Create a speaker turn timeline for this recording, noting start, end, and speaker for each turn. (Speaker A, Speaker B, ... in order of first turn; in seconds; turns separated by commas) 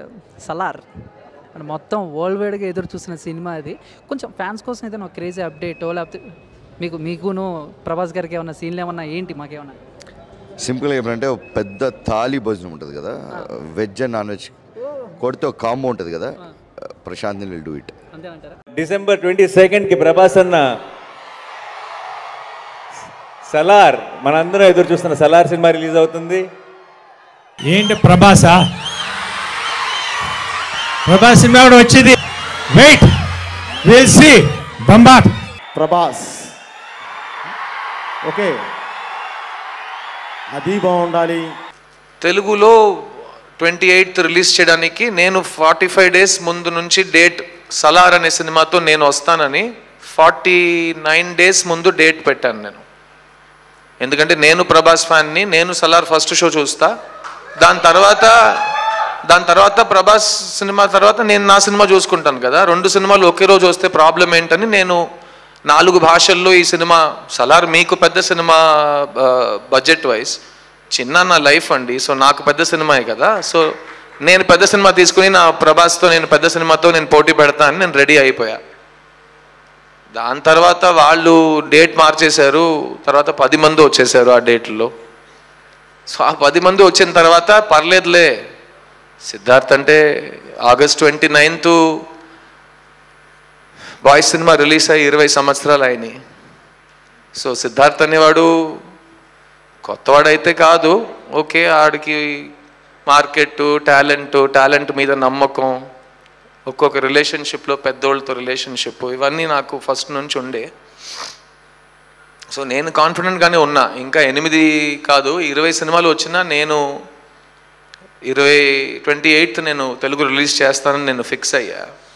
Speaker A: 0.4-0.8, Speaker A: 1.6-6.2, Speaker A: 6.8-9.8, Speaker B: 10.6-14.6, Speaker B: 15.2-16.3, Speaker B: 17.0-17.9, Speaker A: 18.1-18.6, Speaker C: 18.7-20.7, Speaker C: 23.5-26.5, Speaker D: 27.7-28.6, Speaker D: 31.1-32.2, Speaker D: 32.7-33.1, Speaker D: 33.9-35.3, Speaker E: 35.7-36.5, Speaker E: 38.2-38.6, Speaker E: 40.5-41.5, Speaker F: 42.2-42.7, Speaker F: 43.6-52.8, Speaker F: 54.0-56.9, Speaker F: 57.6-58.3, Speaker F: 59.3-65.0, Speaker F: 65.7-70.4, Speaker F: 70.9-73.6, Speaker F: 74.3-78.6, Speaker F: 80.2-84.9, Speaker F: 86.1-88.3, Speaker F: 89.3-90.0, Speaker F: 90.7-91.8, Speaker F: 94.0-96.2, Speaker F: 97.4-98.5, Speaker F: 99.8-102.5, Speaker F: 103.1-105.7, Speaker F: 106.7-110.7, Speaker F: 112.5-116.8, Speaker F: 118.3-121.8